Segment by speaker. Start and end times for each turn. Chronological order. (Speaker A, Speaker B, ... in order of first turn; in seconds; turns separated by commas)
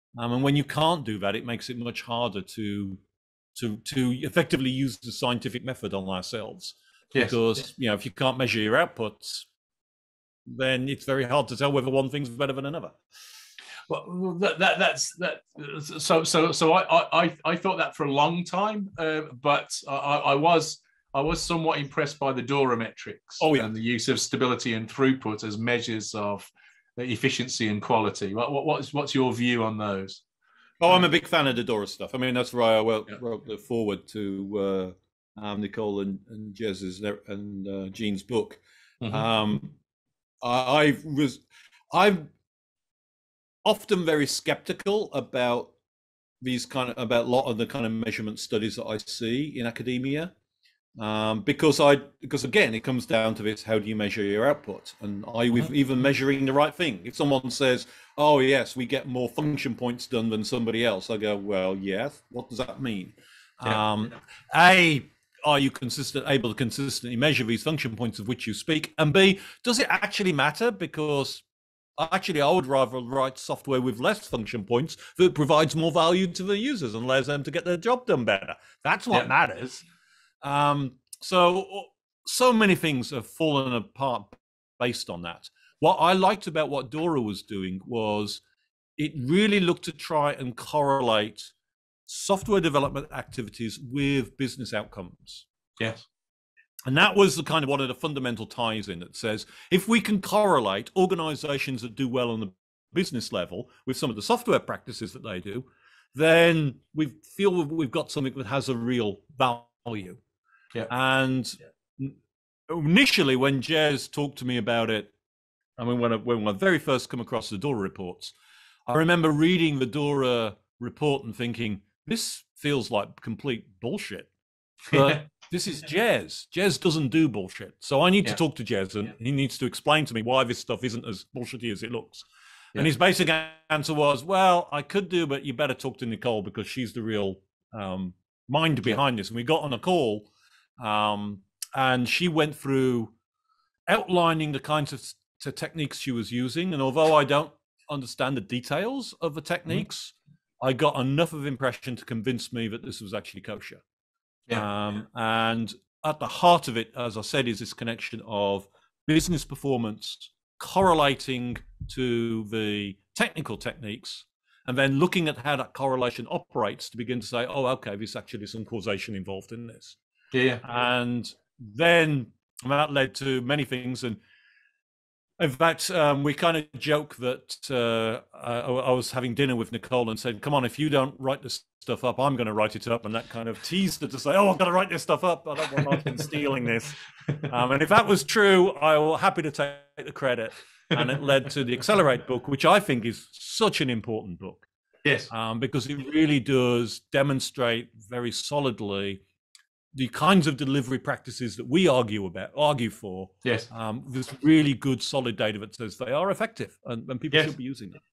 Speaker A: 0.1-3.0, Speaker A: 3.6-9.4, Speaker A: 10.5-12.9, Speaker B: 13.9-30.2, Speaker A: 23.4-23.7, Speaker A: 30.8-38.6, Speaker B: 39.0-39.3, Speaker A: 39.1-39.7, Speaker A: 40.4-41.4, Speaker A: 41.9-42.3, Speaker A: 43.6-45.7, Speaker A: 46.4-50.3, Speaker A: 51.0-71.4, Speaker A: 72.0-79.8, Speaker A: 80.4-88.4, Speaker A: 89.0-91.5, Speaker A: 92.1-95.4, Speaker B: 95.8-96.0, Speaker A: 96.9-110.2, Speaker A: 110.9-112.1, Speaker A: 112.7-115.1, Speaker A: 115.8-118.3, Speaker A: 118.9-124.3, Speaker B: 124.9-125.2, Speaker A: 125.0-132.2, Speaker A: 132.8-140.2, Speaker A: 140.9-143.1, Speaker A: 143.9-150.1, Speaker A: 150.6-153.8, Speaker A: 154.5-169.9, Speaker B: 170.3-170.6, Speaker A: 170.6-174.2, Speaker A: 175.4-186.9, Speaker A: 187.7-194.6, Speaker A: 195.3-199.2, Speaker A: 199.9-208.0